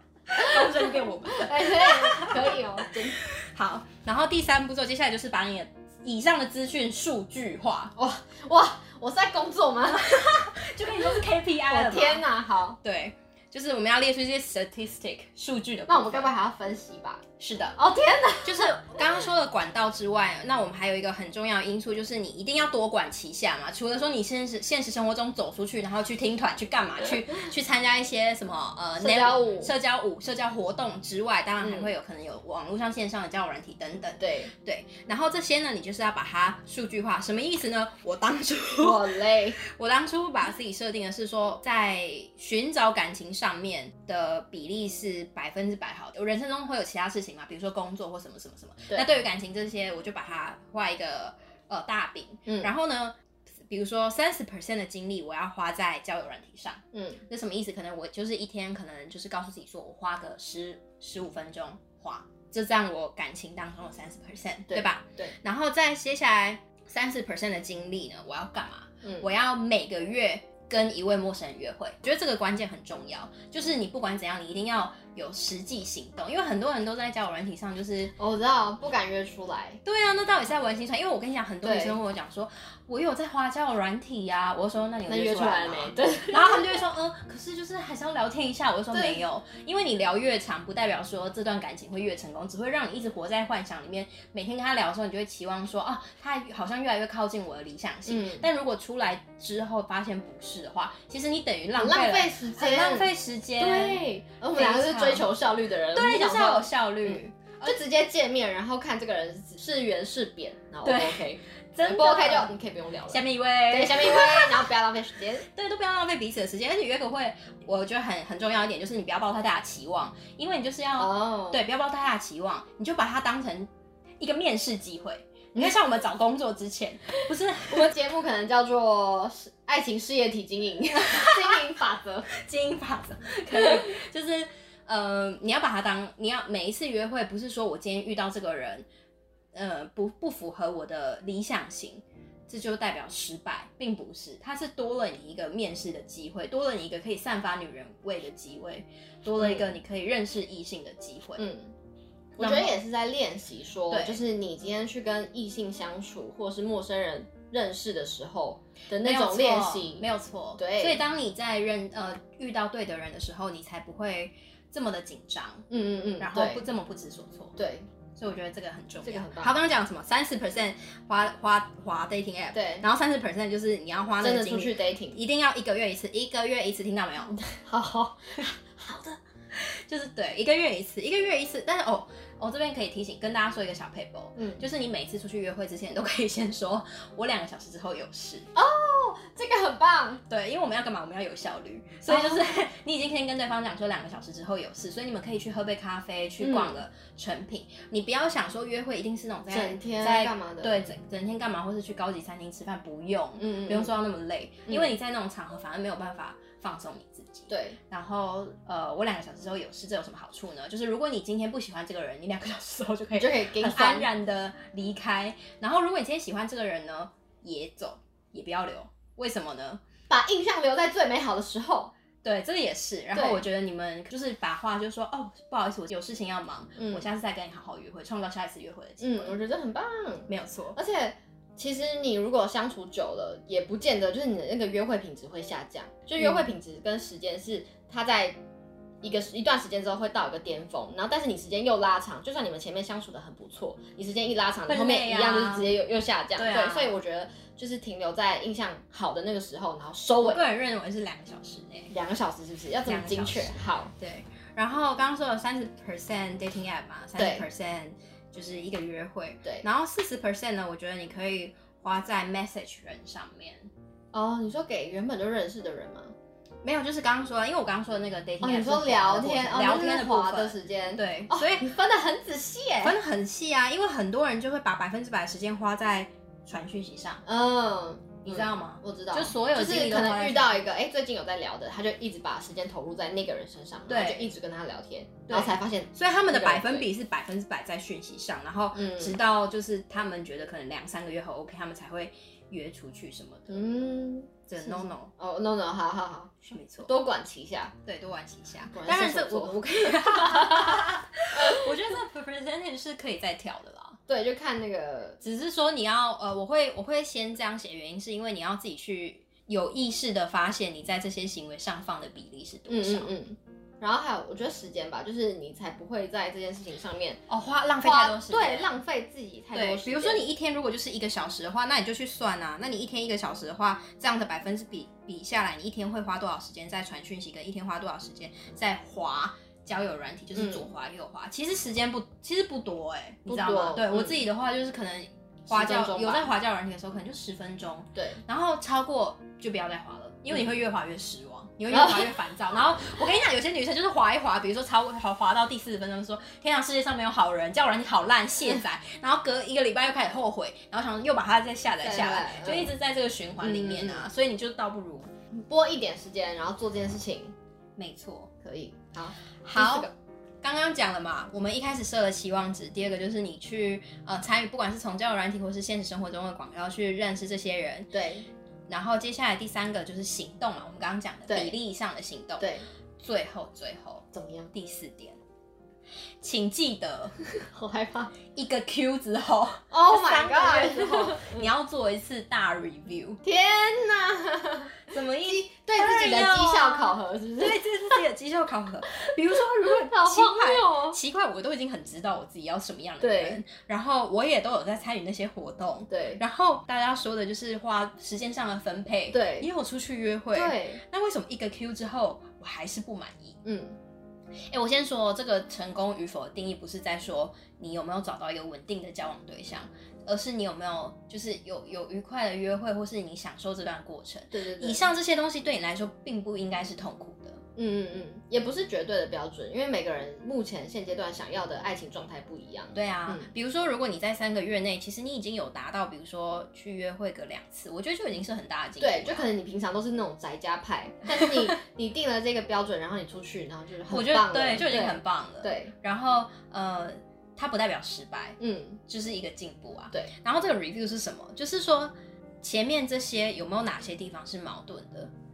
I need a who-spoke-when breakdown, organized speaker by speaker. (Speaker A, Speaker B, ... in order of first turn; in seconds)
Speaker A: 0.3-8.0, 9.9-16.3, 17.4-17.8, 18.4-39.0, 39.6-78.2, 79.8-105.4, 105.9-107.8, 110.8-112.5, 113.1-114.7, 115.5-127.9, 131.0-131.5, 132.3-138.9, 139.5-151.5, 152.4-152.8, 153.9-154.2, 159.0-165.7, 166.2-167.6, 168.2-177.4, 178.4-188.5, 190.3-219.8, 222.2-229.4, 230.3-230.8, 244.7-245.8, 246.4-246.9, 250.2-251.9, 252.9-263.7, 266.6-271.8, 272.8-277.2, 278.2-280.6, 283.9-284.3, 285.3-293.7, 294.5-295.1, 296.5-296.9, 297.9-304.0, 305.2-313.1, 317.3-318.7, 319.5-355.1, 357.8-358.3, 359.4-359.9, 360.4-367.9, 368.7-375.2, 376.2-377.3, 378.3-383.2, 384.9-403.4, 404.5-417.4, 422.8-429.3, 433.9-445.1
Speaker B: 0.4-3.2, 8.0-12.8, 15.9-17.2, 17.8-18.8, 29.0-29.7, 31.6-31.9, 34.2-34.5, 38.8-39.6, 56.9-57.2, 64.7-65.4, 69.0-69.3, 78.2-79.8, 81.6-82.0, 85.1-86.8, 88.9-89.2, 98.1-98.5, 101.8-115.5, 121.0-121.6, 127.7-132.3, 133.5-133.8, 149.4-149.7, 151.4-151.7, 152.4-161.0, 165.7-166.6, 167.6-167.9, 169.0-169.6, 172.5-172.9, 174.2-175.2, 177.3-178.9, 184.4-184.6, 188.6-190.2, 192.1-192.5, 196.4-196.8, 199.5-200.9, 203.4-203.9, 204.7-204.9, 207.5-207.8, 213.2-214.1, 220.1-221.9, 223.1-223.4, 226.8-227.1, 229.0-238.4, 239.0-250.4, 251.9-253.9, 257.2-257.5, 264.1-266.1, 268.4-273.0, 277.3-286.9, 288.7-289.2, 293.5-297.8, 298.7-301.7, 304.1-305.2, 312.7-317.2, 317.8-320.3, 330.3-330.7, 333.3-334.2, 335.5-336.3, 337.9-338.2, 341.7-342.1, 351.8-352.7, 353.4-354.1, 355.3-357.4, 358.4-359.9, 367.9-368.3, 371.3-371.6, 372.4-372.7, 374.1-374.5, 377.4-378.1, 379.7-381.5, 383.2-388.0, 389.1-391.0, 393.0-393.4, 395.9-396.2, 399.1-399.5, 400.3-400.8, 403.4-403.8, 414.3-414.9, 417.6-423.3, 428.8-435.7, 438.4-438.8